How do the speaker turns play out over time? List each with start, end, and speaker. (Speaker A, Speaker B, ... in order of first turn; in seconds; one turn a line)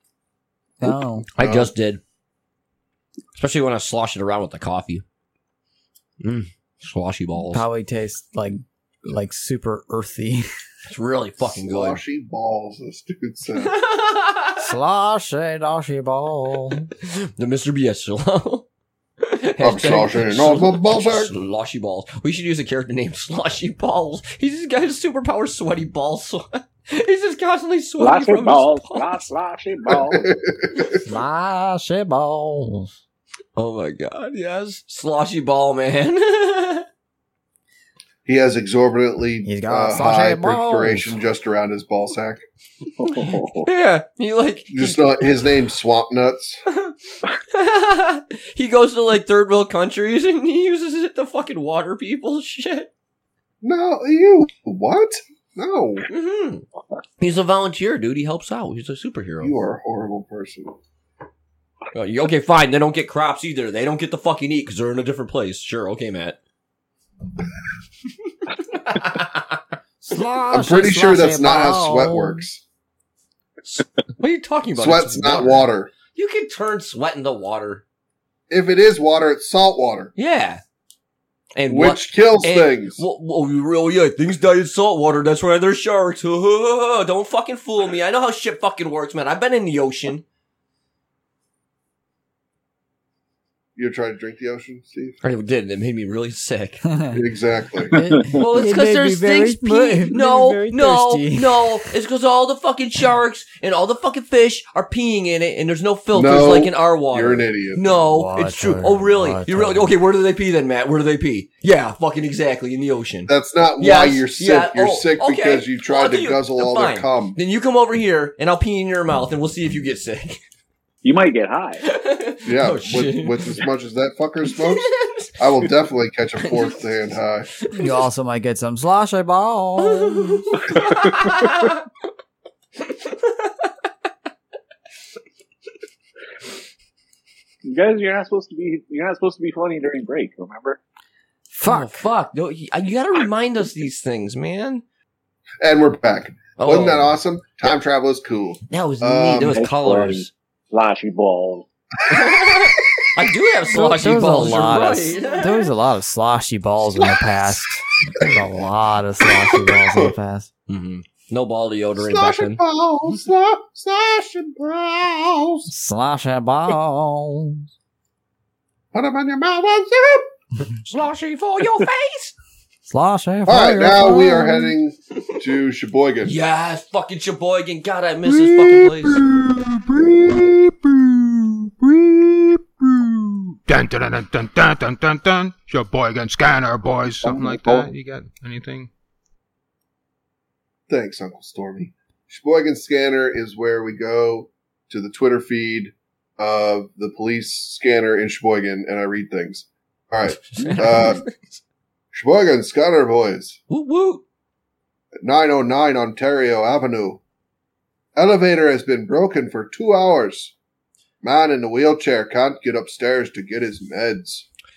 Speaker A: 0.8-1.2
Speaker B: 1.4-2.0
Speaker C: 1.4-1.7
Speaker B: 3.3-5.0
Speaker B: 6.2-7.7
Speaker A: 7.5-10.4
Speaker B: 10.9-12.0
Speaker C: 11.4-13.8
Speaker B: 13.6-14.7
Speaker A: 14.6-16.9
Speaker B: 17.0-18.6
Speaker B: 19.2-29.3
Speaker C: 19.6-21.3
Speaker D: 28.0-30.3
Speaker C: 29.9-31.0
Speaker A: 31.0-32.9
Speaker B: 33.5-36.9
Speaker C: 38.2-42.4
Speaker A: 39.4-41.1
Speaker D: 43.0-43.7
Speaker B: 43.1-45.2
Speaker C: 44.7-46.6
Speaker B: 46.7-52.9
Speaker C: 53.6-56.1
Speaker B: 56.1-56.6
Speaker B: 57.2-59.5
Speaker C: 59.4-60.8
Speaker B: 61.9-66.4
Speaker B: 68.5-70.7
Speaker A: 70.1-72.4
Speaker C: 70.5-72.6
Speaker B: 73.6-77.8
Speaker C: 74.7-75.9
Speaker C: 78.5-80.1
Speaker B: 80.2-80.6
Speaker B: 81.5-90.2
Speaker C: 81.7-83.0
Speaker C: 93.8-95.2
Speaker B: 95.2-96.8
Speaker A: 96.9-97.1
Speaker C: 97.1-97.9
Speaker A: 97.9-101.7
Speaker D: 98.0-98.4
Speaker B: 98.4-120.4
Speaker C: 106.1-108.0
Speaker A: 108.1-109.9
Speaker C: 113.3-117.4
Speaker D: 121.0-121.8
Speaker B: 121.8-123.6
Speaker C: 122.4-127.5
Speaker B: 124.5-125.3
Speaker B: 126.4-126.8
Speaker B: 127.6-127.9
Speaker A: 127.8-130.4
Speaker B: 129.8-131.8
Speaker D: 130.7-131.3
Speaker B: 133.0-133.7
Speaker D: 137.6-140.8
Speaker A: 141.5-142.0
Speaker B: 141.6-144.8
Speaker C: 145.6-149.6
Speaker B: 146.6-147.2
Speaker B: 148.7-150.3
Speaker D: 149.5-151.7
Speaker B: 152.1-155.7
Speaker C: 152.1-153.1
Speaker A: 153.7-160.5
Speaker C: 159.5-160.1
Speaker B: 160.7-162.6
Speaker C: 162.0-165.7
Speaker A: 165.7-167.6
Speaker C: 168.9-170.3
Speaker B: 170.8-172.3
Speaker A: 172.9-174.7
Speaker C: 173.5-176.4
Speaker B: 176.2-179.3
Speaker C: 179.9-180.5
Speaker A: 180.1-180.4
Speaker A: 181.8-182.5
Speaker E: 183.7-188.9
Speaker D: 187.2-187.9
Speaker C: 190.9-201.2
Speaker B: 200.3-201.3
Speaker C: 202.1-203.6
Speaker B: 203.7-204.2
Speaker C: 205.2-207.2
Speaker C: 208.1-210.5
Speaker C: 211.2-214.4